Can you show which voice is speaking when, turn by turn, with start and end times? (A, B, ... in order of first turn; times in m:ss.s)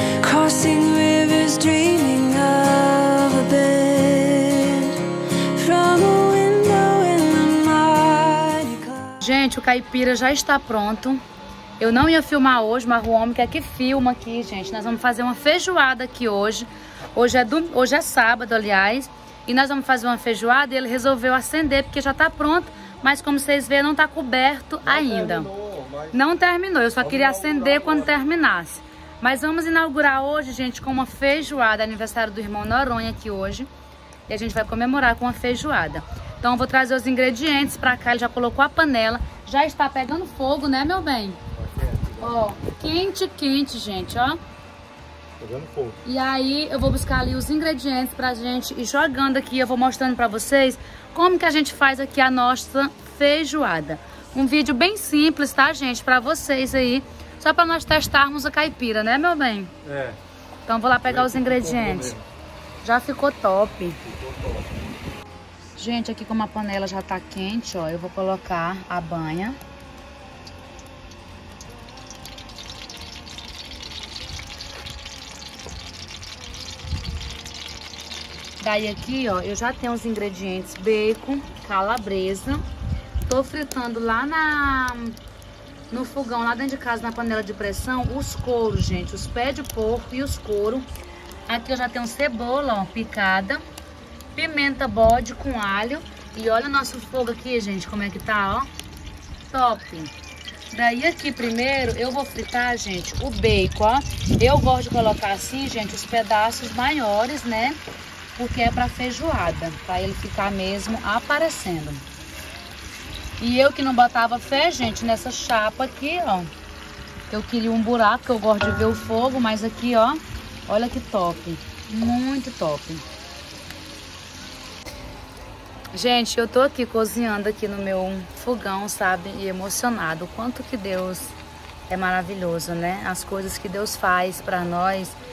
0:00.2-0:05.0 A
0:05.5-0:09.1 A
0:09.2-0:11.2 B
0:11.8-0:25.5 B
0:24.8-0:26.2 C
0:26.1-0:33.7 B
0:27.0-0:28.2 C
0:34.3-0:41.4 B
0:41.6-0:42.3 C
0:42.2-0:44.4 B
0:45.4-0:46.0 C
0:46.0-0:59.7 B
0:59.8-1:00.2 C
1:00.6-1:02.2 B
1:01.1-1:02.2 C
1:02.8-1:04.0 B
1:04.0-1:04.7 C
1:05.8-1:09.6 B
1:18.6-1:22.6 B
1:23.2-1:25.2 B
1:25.9-1:30.8 B
1:31.5-1:33.6 B
1:34.3-1:38.7 B
1:39.4-1:40.1 B
1:40.7-1:47.8 B
1:48.4-1:52.0 B
1:53.4-1:56.5 B
1:57.3-2:03.0 B
2:05.9-2:11.4 B
2:11.9-2:15.2 B